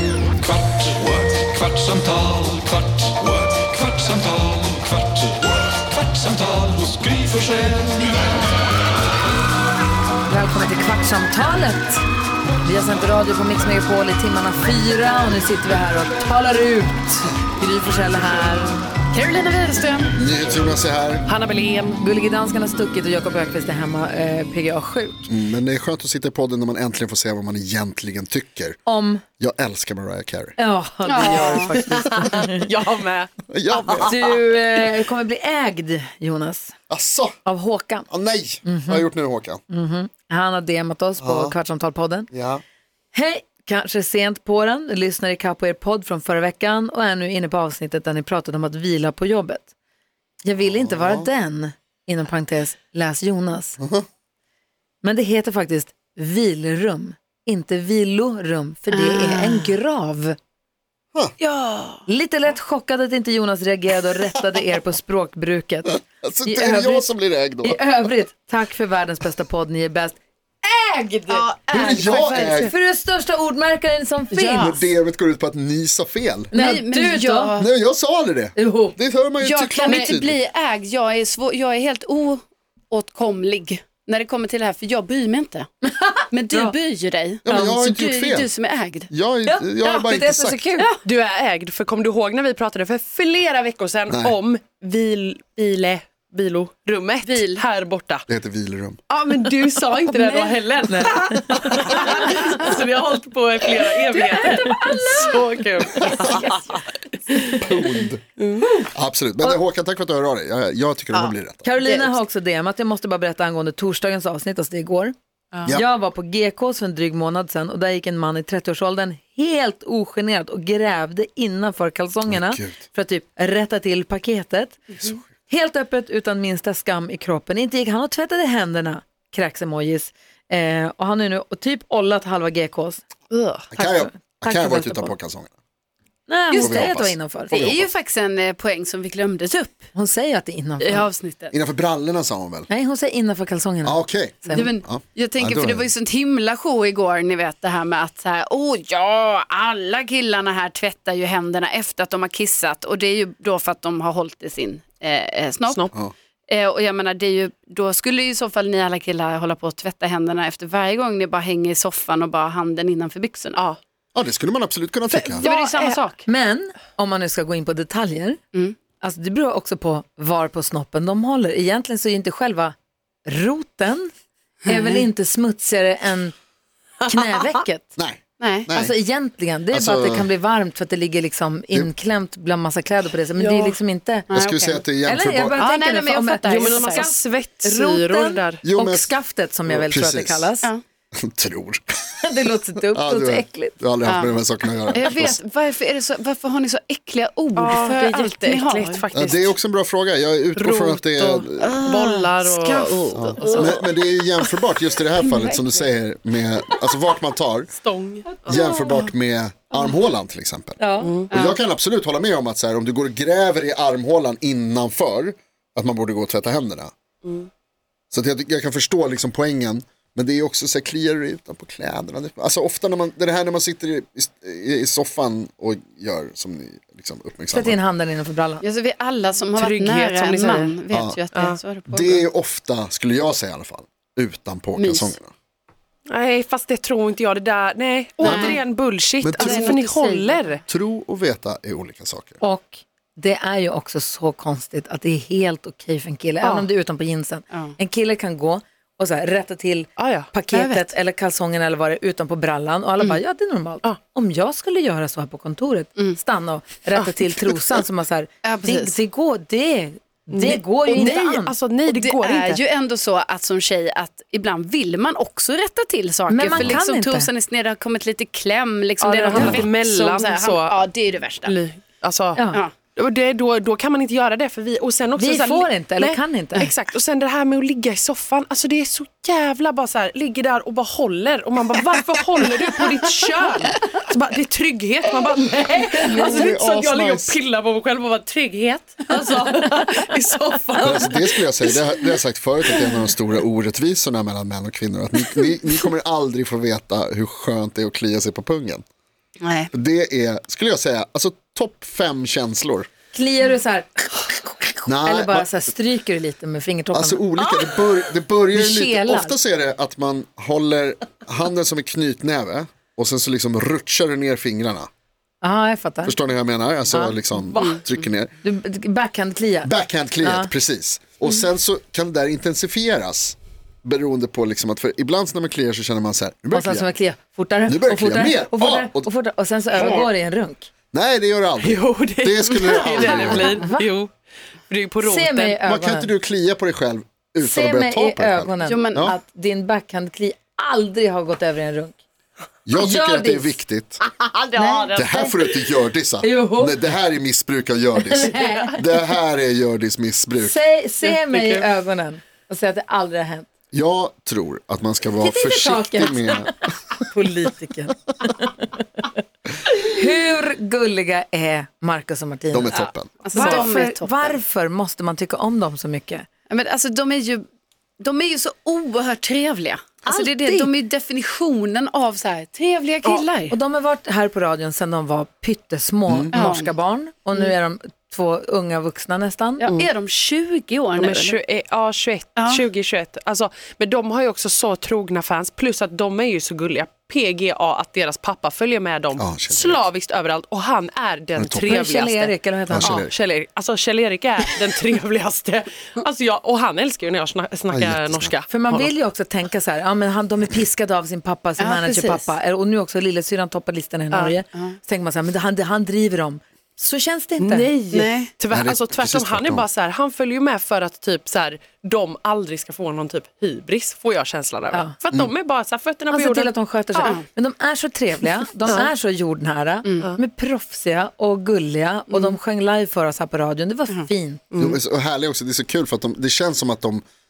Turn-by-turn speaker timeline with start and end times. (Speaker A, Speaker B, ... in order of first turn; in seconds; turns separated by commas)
Speaker A: 0.4-7.9, Speaker B: 10.3-12.0, Speaker B: 12.6-18.8, Speaker C: 19.1-20.1, Speaker D: 20.1-21.3, Speaker E: 21.2-22.0, Speaker B: 21.9-25.3, Speaker D: 25.3-28.8, Speaker B: 28.9-29.2, Speaker D: 29.4-30.6, Speaker B: 30.6-32.6, Speaker C: 31.0-31.9, Speaker E: 31.5-34.4, Speaker D: 33.5-34.1, Speaker B: 34.0-36.8, Speaker D: 36.9-37.4, Speaker B: 37.4-38.1, Speaker D: 38.1-39.6, Speaker B: 38.6-39.1, Speaker B: 39.7-42.3, Speaker D: 41.2-41.5, Speaker D: 42.3-42.6, Speaker B: 43.1-49.7, Speaker B: 50.4-53.8, Speaker D: 50.6-51.3, Speaker D: 53.8-54.0, Speaker B: 55.0-60.4, Speaker C: 58.9-59.8, Speaker C: 61.4-62.0, Speaker B: 62.1-67.1, Speaker D: 65.8-67.8, Speaker B: 67.6-74.8, Speaker C: 71.3-72.7, Speaker D: 71.7-72.7, Speaker C: 74.3-74.7, Speaker D: 74.5-76.5, Speaker B: 76.5-77.5, Speaker C: 76.5-77.7, Speaker D: 77.6-80.4, Speaker B: 78.5-79.0, Speaker C: 79.4-85.7, Speaker B: 85.8-86.7, Speaker C: 86.3-89.1, Speaker D: 87.4-88.5, Speaker D: 89.1-90.7, Speaker B: 89.5-90.9, Speaker E: 91.0-98.2, Speaker D: 94.1-94.3, Speaker C: 97.2-97.6, Speaker D: 98.3-99.0, Speaker E: 99.1-107.7, Speaker B: 100.1-102.3, Speaker D: 106.0-106.5, Speaker D: 107.5-108.2, Speaker E: 108.4-108.9, Speaker D: 108.9-111.7, Speaker C: 111.1-112.1, Speaker B: 111.6-115.1, Speaker B: 115.7-133.0, Speaker D: 122.2-122.8, Speaker E: 133.3-133.7, Speaker D: 133.7-135.5, Speaker B: 133.7-135.2, Speaker B: 136.3-137.7, Speaker C: 136.5-136.9, Speaker D: 136.6-137.9, Speaker C: 137.5-139.9, Speaker B: 139.9-141.1, Speaker C: 140.8-141.5, Speaker D: 141.5-142.7, Speaker B: 142.7-144.7, Speaker D: 143.8-145.9, Speaker C: 144.5-155.9, Speaker C: 156.5-163.6, Speaker D: 164.1-165.4, Speaker C: 165.2-166.2, Speaker E: 165.4-166.0, Speaker B: 166.2-168.4, Speaker B: 169.0-172.7, Speaker B: 173.2-174.1, Speaker C: 174.7-175.1, Speaker B: 174.7-176.3, Speaker B: 177.0-177.9, Speaker D: 177.9-178.9, Speaker C: 178.4-178.7, Speaker B: 178.7-184.3, Speaker D: 179.7-180.3, Speaker E: 183.3-183.8, Speaker C: 184.3-184.8, Speaker D: 184.3-185.6, Speaker B: 185.0-190.7, Speaker C: 185.5-187.1, Speaker E: 186.4-188.6, Speaker D: 188.6-189.1, Speaker D: 189.7-190.5, Speaker D: 191.1-192.0, Speaker B: 192.2-193.8, Speaker D: 192.9-195.4, Speaker C: 194.0-194.4, Speaker C: 194.9-199.0, Speaker E: 197.6-199.6, Speaker D: 199.1-201.8, Speaker E: 200.6-203.8, Speaker C: 201.6-203.8, Speaker D: 203.1-207.7, Speaker C: 205.3-205.7, Speaker E: 207.7-208.6, Speaker B: 208.3-209.1, Speaker D: 208.4-216.9, Speaker B: 210.8-211.1, Speaker E: 211.0-211.3, Speaker C: 211.3-211.6, Speaker E: 217.2-217.5, Speaker D: 218.1-227.8, Speaker B: 227.5-228.6, Speaker C: 228.6-232.2, Speaker E: 229.5-230.7, Speaker D: 230.9-231.2, Speaker E: 231.3-231.6, Speaker D: 231.9-235.3, Speaker C: 234.8-235.2, Speaker E: 236.1-240.6, Speaker C: 238.2-238.6, Speaker D: 238.2-238.6, Speaker D: 239.2-239.7, Speaker C: 239.3-240.6, Speaker D: 240.7-242.4, Speaker B: 242.4-261.5, Speaker E: 246.4-246.7, Speaker E: 250.0-250.3, Speaker C: 250.5-250.9, Speaker E: 256.9-257.3, Speaker C: 258.4-258.9, Speaker E: 260.3-262.6, Speaker C: 261.9-271.5, Speaker B: 266.3-267.3, Speaker E: 269.0-270.8, Speaker B: 269.3-269.6, Speaker E: 271.4-292.1, Speaker B: 272.3-272.6, Speaker B: 275.2-276.7, Speaker D: 286.0-287.4, Speaker D: 290.8-298.8, Speaker C: 299.4-299.7, Speaker D: 299.7-302.9, Speaker B: 303.1-307.2, Speaker D: 304.9-305.5, Speaker D: 306.9-314.9, Speaker B: 308.5-309.4, Speaker B: 315.4-316.2, Speaker D: 316.0-318.3, Speaker B: 316.9-317.2, Speaker E: 317.5-317.8, Speaker B: 318.4-320.5, Speaker D: 319.6-326.9, Speaker B: 326.5-330.7, Speaker D: 327.7-329.1, Speaker D: 329.7-330.1, Speaker D: 330.9-333.6, Speaker E: 331.6-334.1, Speaker B: 333.0-333.9, Speaker E: 334.7-335.6, Speaker B: 335.0-336.1, Speaker D: 335.6-339.1, Speaker B: 337.4-342.0, Speaker C: 338.6-339.1, Speaker D: 342.6-344.0, Speaker B: 342.7-343.6, Speaker E: 344.0-345.5, Speaker C: 344.6-345.1, Speaker D: 344.9-350.6, Speaker B: 346.2-346.8, Speaker B: 348.1-348.8, Speaker E: 348.3-348.7, Speaker B: 350.4-353.5, Speaker E: 351.0-351.7, Speaker D: 353.7-356.5, Speaker B: 355.2-359.0, Speaker B: 359.7-366.3, Speaker D: 362.5-363.2, Speaker C: 363.2-364.4, Speaker E: 363.3-363.7, Speaker C: 366.5-367.4, Speaker C: 368.0-373.6, Speaker B: 370.1-370.7, Speaker B: 373.5-379.7, Speaker D: 376.1-376.3, Speaker C: 376.3-376.7, Speaker C: 379.6-381.4, Speaker E: 380.9-398.9, Speaker C: 382.4-382.6, Speaker D: 389.1-389.9, Speaker D: 391.4-391.8, Speaker B: 391.6-393.1, Speaker D: 392.7-393.1, Speaker D: 397.7-398.3, Speaker B: 398.5-407.7, Speaker C: 401.6-402.3, Speaker C: 404.3-404.8, Speaker E: 407.4-417.1, Speaker C: 407.9-408.3, Speaker D: 408.5-409.6, Speaker B: 416.1-424.4, Speaker C: 419.8-420.1, Speaker C: 422.1-422.4, Speaker E: 424.5-424.8, Speaker D: 424.6-427.0